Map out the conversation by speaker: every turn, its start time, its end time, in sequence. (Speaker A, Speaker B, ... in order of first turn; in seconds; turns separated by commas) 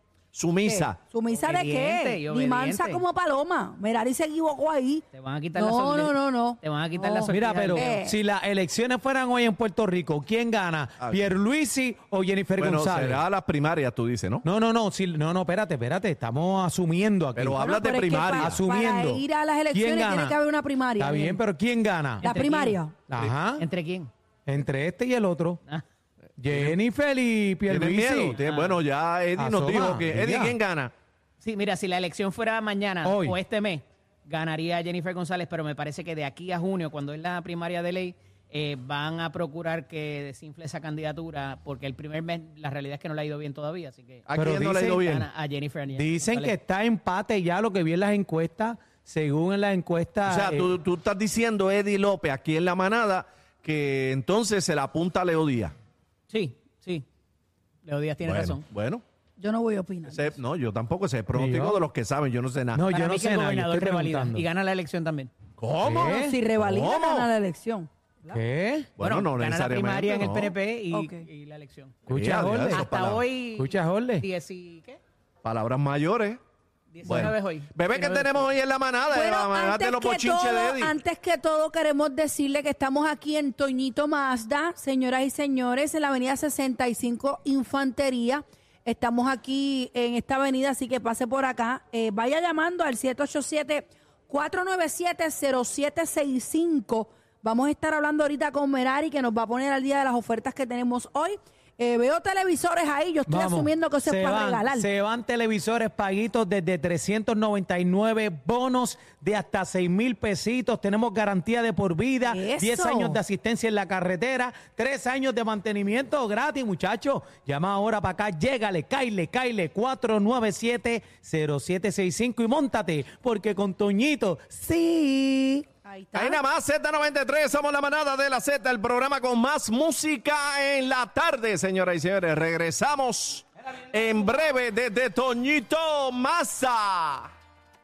Speaker A: 0.3-1.0, Speaker B: 0.7-8.2, Speaker C: 1.3-3.0, Speaker C: 5.1-7.9, Speaker D: 7.3-13.2, Speaker A: 11.0-11.3, Speaker A: 12.6-14.4, Speaker D: 14.4-17.6, Speaker A: 17.4-18.6, Speaker B: 17.6-21.4, Speaker D: 18.4-20.4, Speaker D: 21.0-22.2, Speaker C: 22.2-22.8, Speaker B: 22.2-23.0, Speaker D: 23.0-23.6, Speaker C: 23.6-24.1, Speaker D: 24.5-25.6, Speaker D: 26.4-28.4, Speaker A: 26.5-26.8, Speaker A: 27.7-30.9, Speaker C: 28.3-28.8, Speaker D: 29.4-30.6, Speaker C: 31.4-44.2, Speaker D: 33.0-33.4, Speaker A: 44.3-45.3, Speaker D: 44.4-44.9, Speaker C: 44.9-46.5, Speaker D: 45.9-50.7, Speaker A: 50.3-55.8, Speaker C: 56.3-57.0, Speaker C: 57.8-58.6, Speaker A: 58.2-59.0, Speaker B: 59.4-60.4, Speaker A: 60.1-62.9, Speaker D: 61.3-61.8, Speaker D: 62.8-64.4, Speaker C: 62.9-65.3, Speaker A: 65.6-67.3, Speaker D: 65.8-66.4, Speaker B: 65.9-68.4, Speaker D: 68.3-68.9, Speaker A: 69.0-70.6, Speaker C: 69.0-72.0, Speaker B: 70.9-71.2, Speaker D: 72.1-72.8, Speaker A: 72.1-73.2, Speaker C: 72.7-75.0, Speaker D: 73.6-74.2, Speaker A: 75.4-76.4, Speaker C: 76.9-78.5, Speaker A: 77.0-81.0, Speaker B: 79.1-104.9, Speaker D: 103.3-125.7, Speaker B: 112.2-113.2, Speaker B: 125.8-126.4, Speaker A: 126.2-137.3